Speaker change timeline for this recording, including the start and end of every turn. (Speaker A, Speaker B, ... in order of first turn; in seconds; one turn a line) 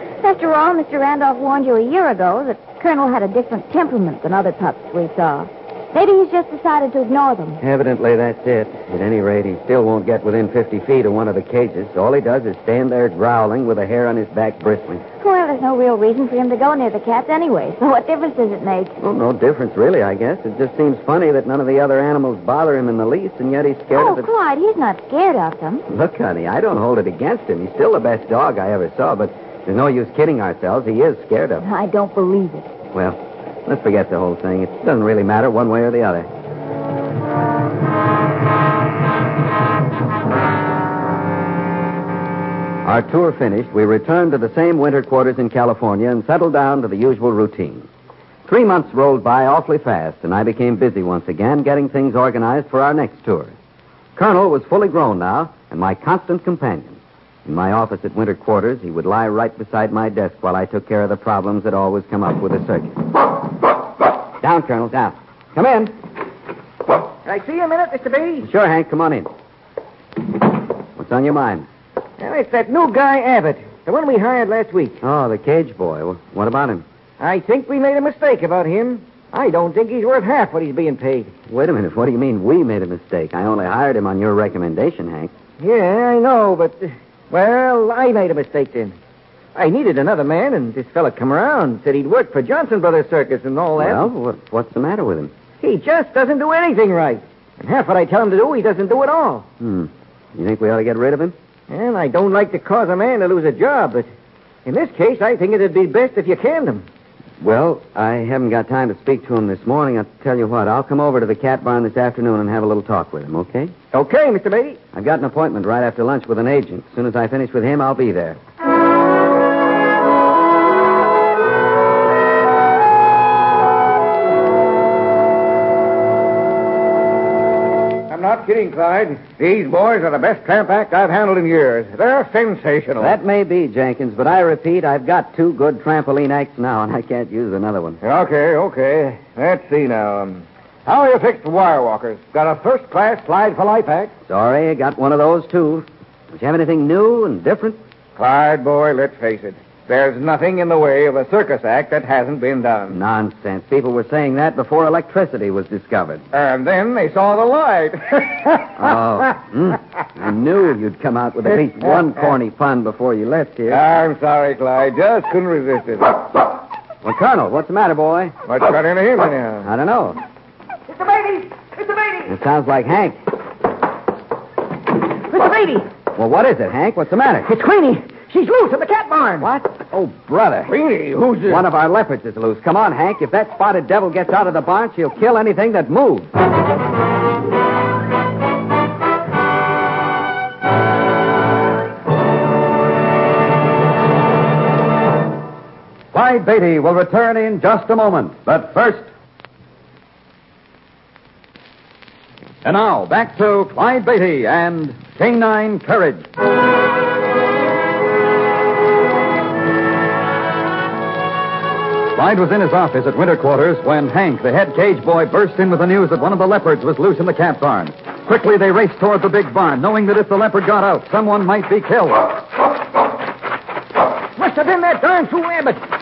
Speaker A: 0.2-7.6
Speaker B: 7.6-15.0
Speaker A: 15.2-18.9
Speaker B: 19.0-24.3
Speaker A: 23.9-25.8
Speaker B: 25.9-31.7
Speaker A: 31.6-32.7
Speaker B: 32.9-36.3
Speaker B: 42.8-47.9
Speaker B: 48.5-53.5
Speaker B: 54.1-63.0
Speaker B: 64.4-66.0
Speaker C: 67.2-68.5
Speaker B: 68.4-69.3
Speaker B: 70.9-71.7
Speaker C: 72.2-75.0
Speaker B: 75.0-76.8
Speaker C: 77.2-81.3
Speaker B: 81.5-85.3
Speaker C: 85.6-89.0
Speaker C: 89.5-94.1
Speaker B: 93.8-95.3
Speaker C: 95.6-99.5
Speaker B: 99.6-101.3
Speaker C: 101.7-104.1
Speaker C: 104.6-106.8
Speaker B: 107.4-113.7
Speaker C: 113.9-114.8
Speaker B: 114.9-118.4
Speaker D: 128.1-133.1
Speaker B: 133.0-138.0
Speaker D: 138.0-144.1
Speaker B: 144.3-147.8
Speaker D: 148.2-152.9
Speaker B: 152.9-156.2
Speaker D: 156.3-158.8
Speaker B: 158.8-163.8
Speaker D: 163.7-166.3
Speaker B: 167.0-168.3
Speaker D: 168.5-169.7
Speaker B: 169.6-170.2
Speaker C: 170.9-172.3
Speaker B: 172.2-173.2
Speaker C: 175.3-175.9
Speaker B: 176.1-177.5
Speaker C: 177.4-179.5
Speaker B: 179.4-180.7
Speaker C: 180.7-181.6
Speaker B: 181.4-186.3
Speaker E: 196.1-199.1
Speaker E: 202.6-206.2
Speaker E: 212.1-222.4
Speaker C: 224.3-225.8